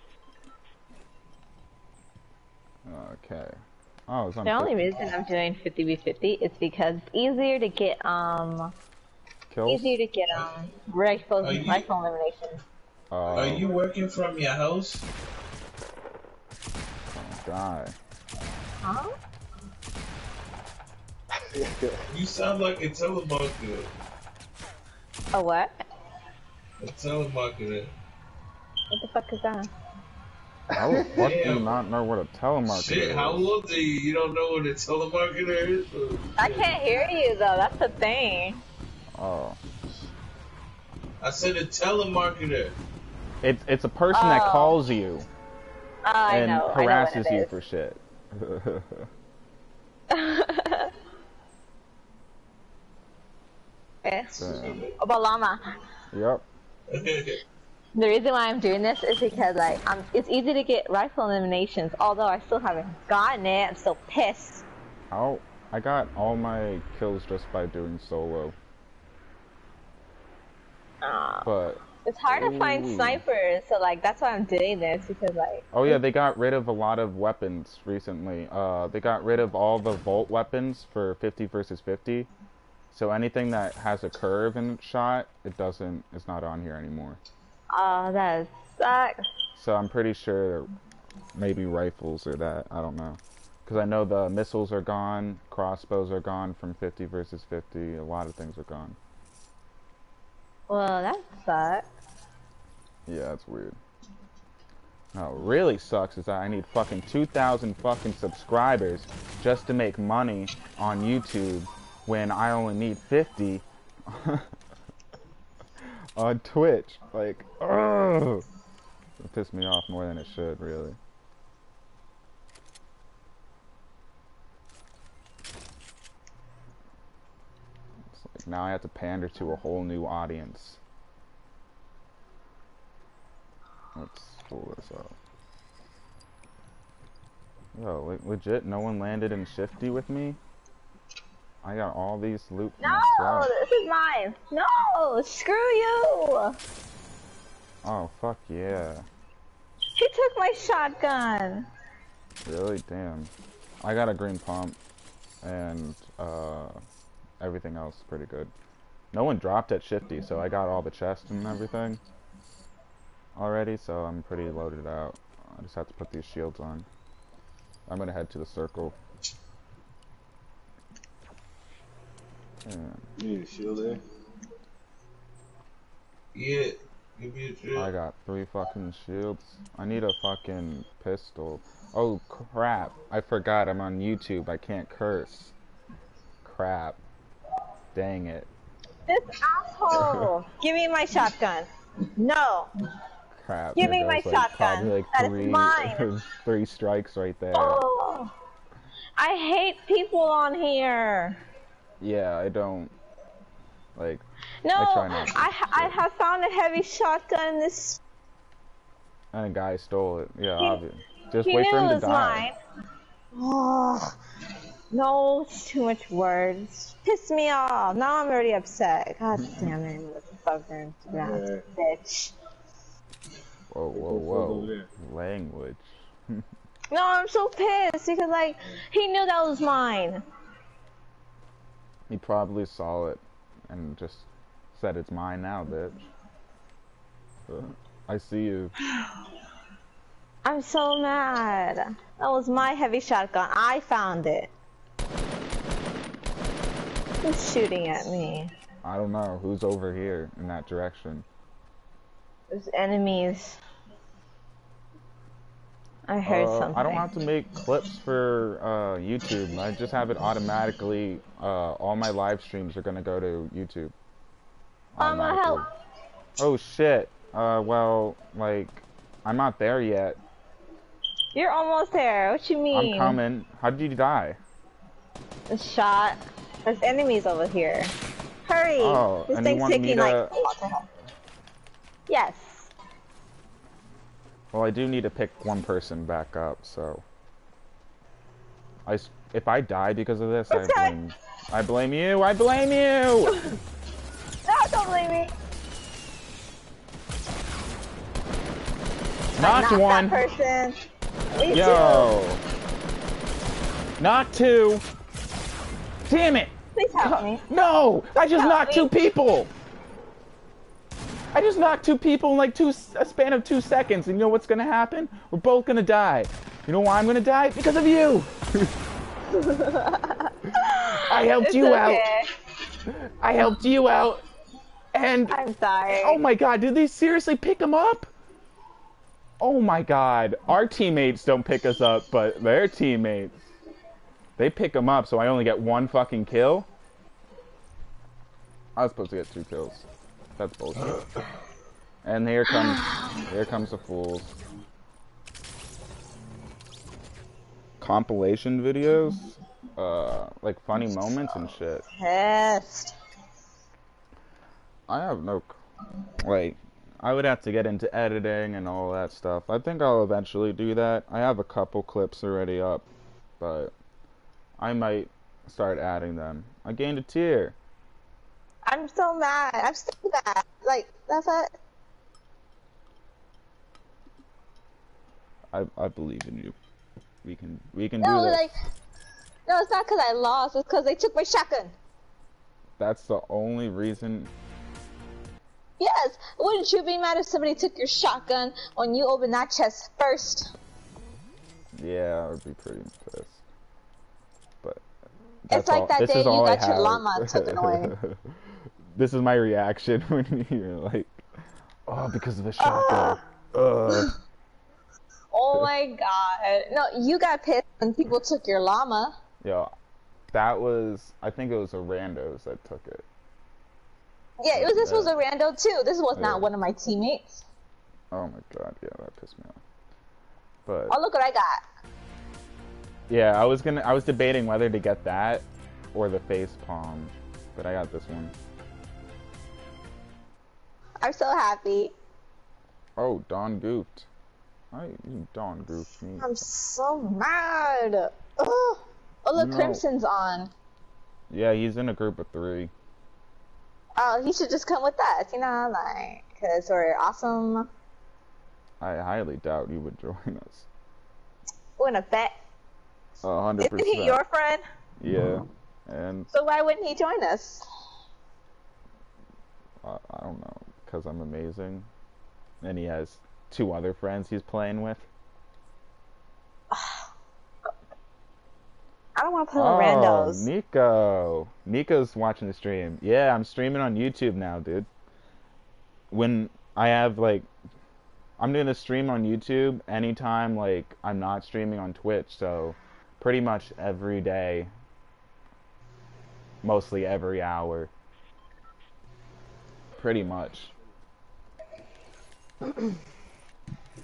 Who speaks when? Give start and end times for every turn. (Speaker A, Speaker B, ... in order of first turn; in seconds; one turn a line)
Speaker A: 2.8-4.8
Speaker B: 4.4-8.7
Speaker A: 9.5-9.9
Speaker B: 9.7-12.6
Speaker C: 11.4-11.9
Speaker A: 13.1-13.7
Speaker C: 13.3-15.1
Speaker A: 17.1-17.9
Speaker B: 18.8-19.1
Speaker C: 22.1-23.9
Speaker B: 25.3-25.8
Speaker C: 26.8-27.9
Speaker B: 28.9-29.7
Speaker A: 30.7-33.4
Speaker C: 31.0-31.7
Speaker C: 32.7-36.7
Speaker B: 36.4-38.6
Speaker A: 39.1-39.6
Speaker C: 41.2-42.7
Speaker A: 43.4-45.3
Speaker B: 44.1-44.8
Speaker B: 46.0-47.5
Speaker A: 46.3-49.1
Speaker B: 50.1-50.9
Speaker B: 54.0-55.6
Speaker A: 54.4-54.9
Speaker A: 56.1-56.4
Speaker C: 56.9-57.4
Speaker B: 58.0-64.6
Speaker A: 65.1-68.5
Speaker B: 71.0-76.0
Speaker A: 71.4-73.2
Speaker A: 75.7-82.3
Speaker A: 82.9-87.2
Speaker B: 87.7-89.2
Speaker A: 89.5-90.7
Speaker A: 91.3-99.0
Speaker B: 100.7-101.8
Speaker A: 103.1-103.8
Speaker A: 105.1-114.5
Speaker A: 115.8-118.4
Speaker A: 119.2-121.0
Speaker A: 128.1-130.8
Speaker A: 133.9-135.2
Speaker A: 137.7-140.4
Speaker A: 141.6-143.5
Speaker B: 142.8-146.6
Speaker A: 147.8-149.1
Speaker B: 150.0-151.7
Speaker A: 152.4-154.8
Speaker A: 155.4-156.8
Speaker A: 157.4-158.5
Speaker A: 159.1-162.0
Speaker A: 163.3-166.9
Speaker A: 167.9-168.9
Speaker A: 172.6-173.1
Speaker D: 173.2-174.0
Speaker C: 176.3-177.9
Speaker A: 177.7-185.5
Speaker A: 186.4-187.0
Speaker A: 187.9-188.5
Speaker B: 189.1-192.7
Speaker A: 189.9-190.3
Speaker A: 193.3-197.8
Speaker B: 193.8-196.1
Speaker B: 197.5-198.3
Speaker B: 199.2-201.4
Speaker A: 202.0-202.9
Speaker A: 203.9-206.0
Speaker B: 204.6-208.0
Speaker A: 209.3-212.4
Speaker B: 211.4-212.6
Speaker B: 213.3-214.2
Speaker B: 214.9-222.3
Speaker A: 219.4-219.7
Speaker D: 221.2-221.6
Speaker A: 223.7-226.4
Speaker D: 223.9-224.9
Speaker B: 226.9-230.2
Speaker A: 232.1-236.0
Speaker A: 237.5-238.7
Speaker B: 240.4-244.5
Speaker B: 247.2-248.5
Speaker A: 248.8-251.2
Speaker B: 252.5-253.6
Speaker B: 256.1-257.1
Speaker A: 256.2-263.9
Speaker A: 264.9-265.6
Speaker B: 265.0-265.7
Speaker A: 266.4-270.2
Speaker B: 271.3-273.2
Speaker A: 272.7-274.4
Speaker B: 275.5-277.9
Speaker B: 278.4-280.9
Speaker A: 278.8-280.3
Speaker B: 282.1-282.7
Speaker A: 284.5-287.0
Speaker A: 288.9-293.5
Speaker B: 290.5-290.9
Speaker B: 294.4-295.3
Speaker A: 299.4-300.2
Speaker B: 299.4-300.8
Speaker B: 301.3-302.1
Speaker A: 301.5-302.4
Speaker A: 304.0-304.8
Speaker A: 306.1-309.5
Speaker B: 306.8-307.4
Speaker B: 308.1-308.9
Speaker A: 311.3-318.7
Speaker B: 319.3-322.3
Speaker A: 320.6-322.1
Speaker A: 322.9-324.2
Speaker A: 324.9-328.1
Speaker B: 325.3-326.2
Speaker A: 329.4-333.4
Speaker A: 334.4-336.7
Speaker A: 338.8-341.1
Speaker A: 342.0-344.4
Speaker B: 342.6-343.2
Speaker A: 347.8-351.8
Speaker B: 351.9-352.9
Speaker A: 354.9-355.6
Speaker A: 356.2-362.9
Speaker A: 363.4-363.7
Speaker A: 364.6-367.5
Speaker B: 368.6-371.5
Speaker A: 375.5-376.6
Speaker A: 377.2-378.5
Speaker B: 378.0-378.5
Speaker B: 379.5-381.7
Speaker A: 382.8-384.3
Speaker B: 385.8-390.5
Speaker A: 391.8-393.4
Speaker A: 395.5-398.4
Speaker B: 395.5-397.9
Speaker A: 398.9-401.3
Speaker A: 401.9-404.1
Speaker B: 402.6-403.2
Speaker B: 405.3-409.1
Speaker A: 409.4-409.7
Speaker A: 410.3-413.1
Speaker B: 414.4-417.4
Speaker A: 414.5-415.1
Speaker A: 416.1-416.5
Speaker A: 418.1-419.6
Speaker A: 420.6-421.0
Speaker B: 420.9-421.6
Speaker A: 423.1-428.3
Speaker B: 431.0-431.9
Speaker A: 433.0-434.1
Speaker A: 434.7-436.5
Speaker B: 436.2-440.5
Speaker A: 439.3-439.8
Speaker A: 441.3-442.7
Speaker B: 444.0-447.7
Speaker A: 448.8-450.7
Speaker B: 451.8-452.3
Speaker A: 453.2-454.2
Speaker B: 453.6-454.6
Speaker A: 455.0-456.3
Speaker B: 456.3-457.6
Speaker A: 459.8-461.9
Speaker A: 462.6-465.1
Speaker B: 466.7-467.1
Speaker B: 469.1-470.5
Speaker A: 469.6-474.9
Speaker A: 476.1-477.5
Speaker A: 478.4-484.7
Speaker A: 486.6-487.9
Speaker A: 490.0-490.7